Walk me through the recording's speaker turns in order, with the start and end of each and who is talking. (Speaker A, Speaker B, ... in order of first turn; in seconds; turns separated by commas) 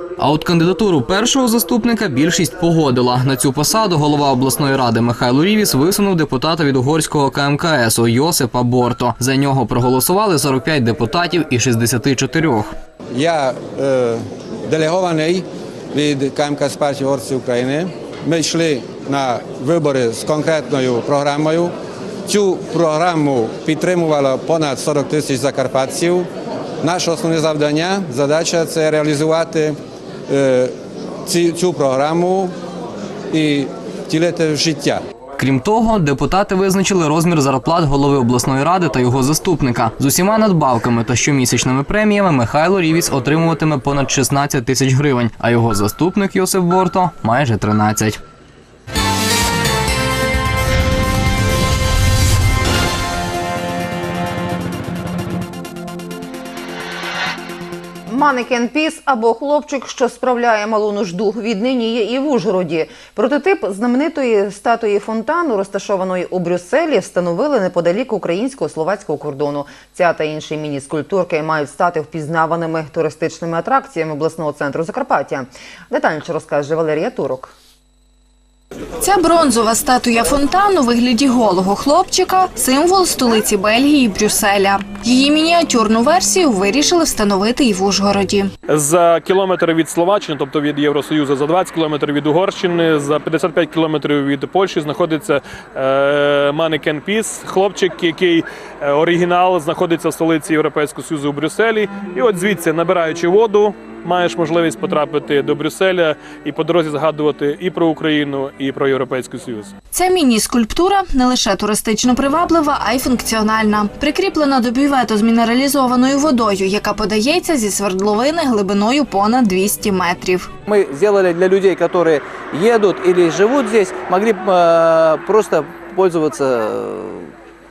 Speaker A: 0.2-12.7, Speaker B: 13.2-21.7, Speaker B: 22.3-26.3, Speaker B: 26.8-29.8, Speaker B: 30.3-30.7, Speaker B: 31.3-32.5, Speaker B: 33.3-35.0, Speaker A: 35.4-48.2, Speaker C: 58.1-77.5, Speaker D: 79.0-88.5, Speaker E: 88.7-109.7, Speaker D: 109.9-120.5, Speaker F: 120.7-127.3